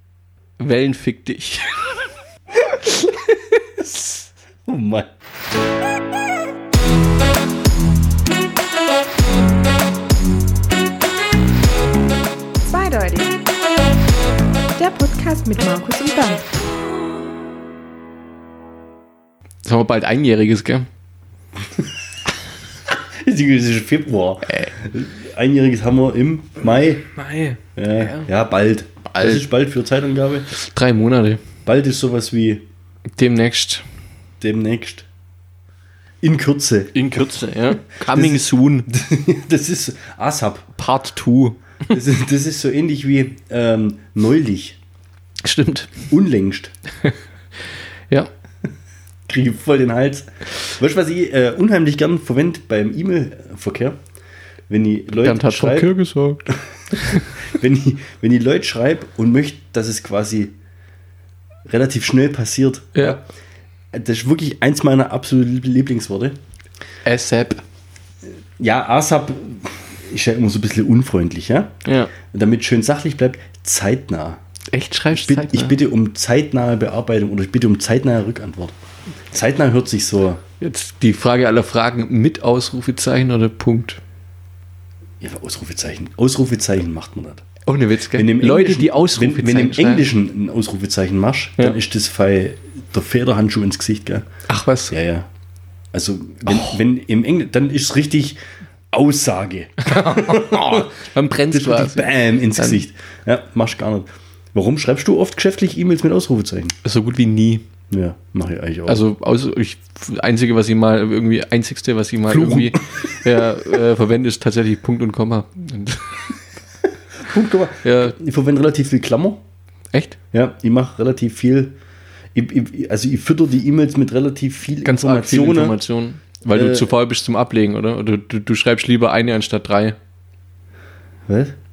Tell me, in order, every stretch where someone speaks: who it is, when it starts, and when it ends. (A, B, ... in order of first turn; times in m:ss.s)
0:00.6-0:01.9 A
0:04.6-0:05.1 B
0:12.7-0:13.4 C
0:14.8-0:16.5 C
0:19.6-0:20.9 A
0:23.2-0:27.1 B
0:27.2-0:28.3 A
0:27.8-0:30.5 B
0:29.1-0:29.5 A
0:30.5-0:31.4 A
0:31.7-0:32.6 B
0:33.2-0:33.9 A
0:34.4-0:35.1 B
0:36.2-0:37.0 B
0:36.9-0:38.9 A
0:38.1-0:40.7 B
0:40.8-0:41.9 A
0:41.9-0:44.8 B
0:45.4-0:46.0 A
0:46.1-0:46.7 B
0:49.3-0:50.3 B
0:50.8-0:54.0 B
0:54.7-0:55.9 B
0:55.2-0:57.3 A
0:57.0-1:00.5 B
1:01.7-1:03.2 B
1:03.9-1:06.4 B
1:07.1-1:07.6 A
1:08.6-1:11.8 B
1:11.8-1:12.1 A
1:12.3-1:14.4 B
1:14.7-1:15.8 A
1:15.1-1:18.8 B
1:19.3-1:20.4 B
1:20.6-1:24.0 A
1:25.2-1:27.4 B
1:27.7-1:30.1 A
1:28.2-1:34.3 B
1:34.5-1:35.0 A
1:34.9-1:35.3 B
1:35.9-1:38.4 B
1:36.5-1:36.8 A
1:38.9-1:40.9 B
1:39.8-1:42.8 A
1:41.5-1:46.8 B
1:46.8-1:47.6 A
1:47.9-1:49.0 B
1:48.9-1:56.3 A
1:52.3-1:53.1 B
1:57.2-1:59.4 B
1:57.8-1:58.2 A
1:59.9-2:00.2 A
2:00.3-2:01.8 B
2:02.3-2:05.8 B
2:04.8-2:10.0 A
2:06.5-2:06.9 B
2:11.3-2:11.6 B